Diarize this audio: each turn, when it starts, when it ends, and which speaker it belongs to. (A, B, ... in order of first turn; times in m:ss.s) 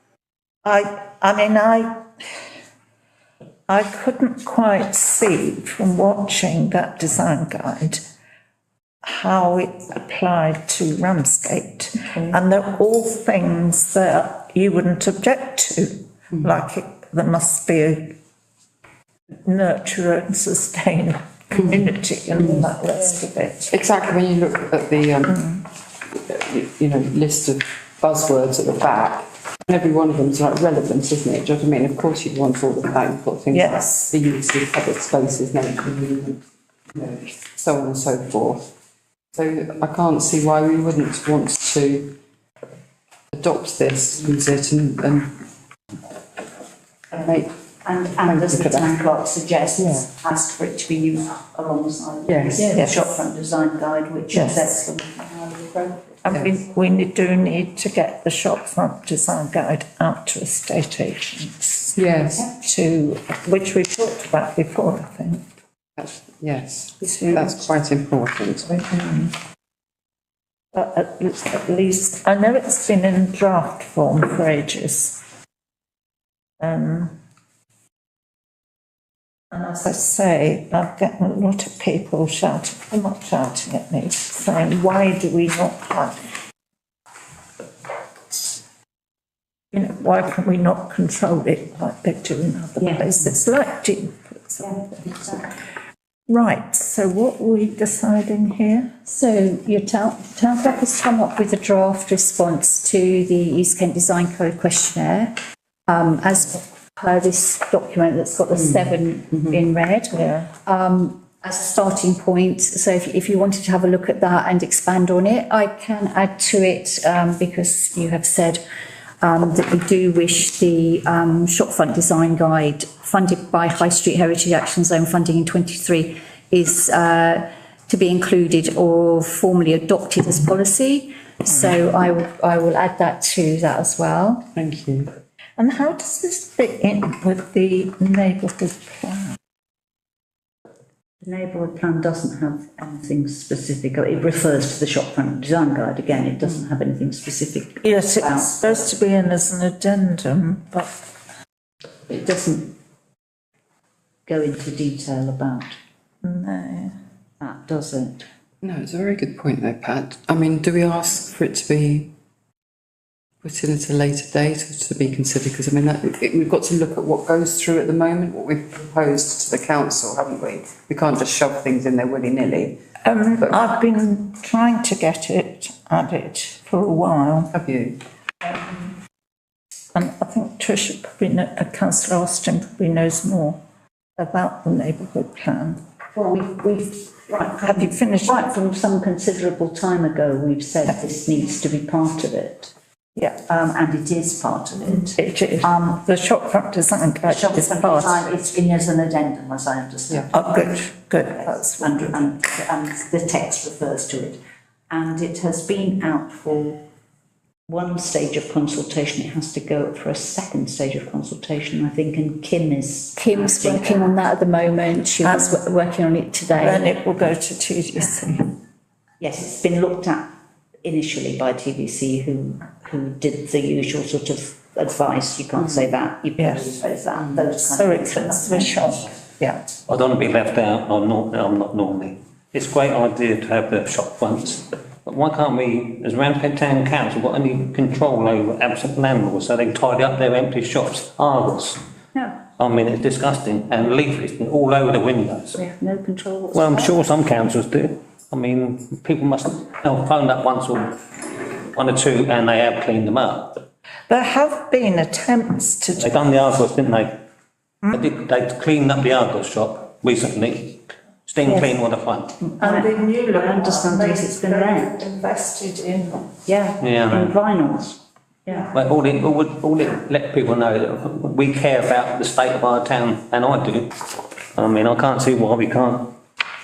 0:00.6-0:02.0 A
0:03.7-0:08.0 A
0:09.0-0:18.2 A
0:19.4-0:23.7 A
0:23.9-0:25.3 B
0:25.3-0:25.6 A
0:26.1-0:36.4 B
0:33.5-0:34.1 A
0:36.9-0:38.7 B
0:39.3-0:42.2 B
0:43.3-0:45.3 B
0:47.1-0:47.5 B
0:47.8-0:56.1 C
0:48.1-0:49.1 B
0:49.7-0:50.1 B
0:52.3-0:52.9 B
0:52.7-0:53.2 A
0:54.3-0:54.7 A
0:55.9-0:56.5 B
0:56.2-1:05.4 A
1:02.0-1:02.5 B
1:06.0-1:08.8 B
1:07.0-1:07.6 A
1:08.8-1:09.3 A
1:10.7-1:15.2 A
1:16.6-1:17.2 A
1:19.5-1:26.2 A
1:29.7-1:35.2 A
1:36.3-1:38.9 A
1:39.0-1:45.3 D
1:45.9-1:58.6 D
1:50.1-1:50.5 A
1:59.2-2:14.4 D
2:14.5-2:15.1 B
2:15.6-2:19.3 A
2:21.2-2:28.7 C
2:27.8-2:30.9 A
2:32.1-2:32.7 C
2:34.2-2:35.8 C
2:36.2-2:36.9 A
2:37.4-2:38.2 C
2:38.6-2:42.1 B
2:43.4-2:52.8 B
2:53.0-2:57.5 A
2:57.5-2:58.0 B
2:58.4-2:58.9 A
2:59.9-3:03.6 A
3:04.2-3:05.8 A
3:06.2-3:12.7 C
3:07.6-3:08.5 A
3:13.2-3:13.4 A
3:13.5-3:15.0 C
3:15.1-3:18.3 A
3:17.3-3:20.6 C
3:20.3-3:22.2 A
3:21.8-3:24.4 C
3:24.9-3:26.8 C
3:27.7-3:34.0 C
3:33.2-3:36.9 D
3:35.2-3:35.6 A
3:36.5-3:38.5 A
3:39.2-3:40.3 C
3:40.8-3:48.6 C
3:46.4-3:46.8 A
3:47.4-3:49.7 A
3:49.9-4:01.8 E
4:02.5-4:05.6 E
4:05.6-4:06.8 C
4:06.5-4:11.0 E
4:11.7-4:13.6 E
4:14.1-4:16.2 A
4:16.0-4:17.2 E
4:17.9-4:22.4 E
4:22.6-4:26.3 A
4:23.4-4:24.8 C
4:26.5-4:28.0 C
4:26.8-4:27.4 E
4:28.7-4:34.0 E
4:34.5-4:36.2 E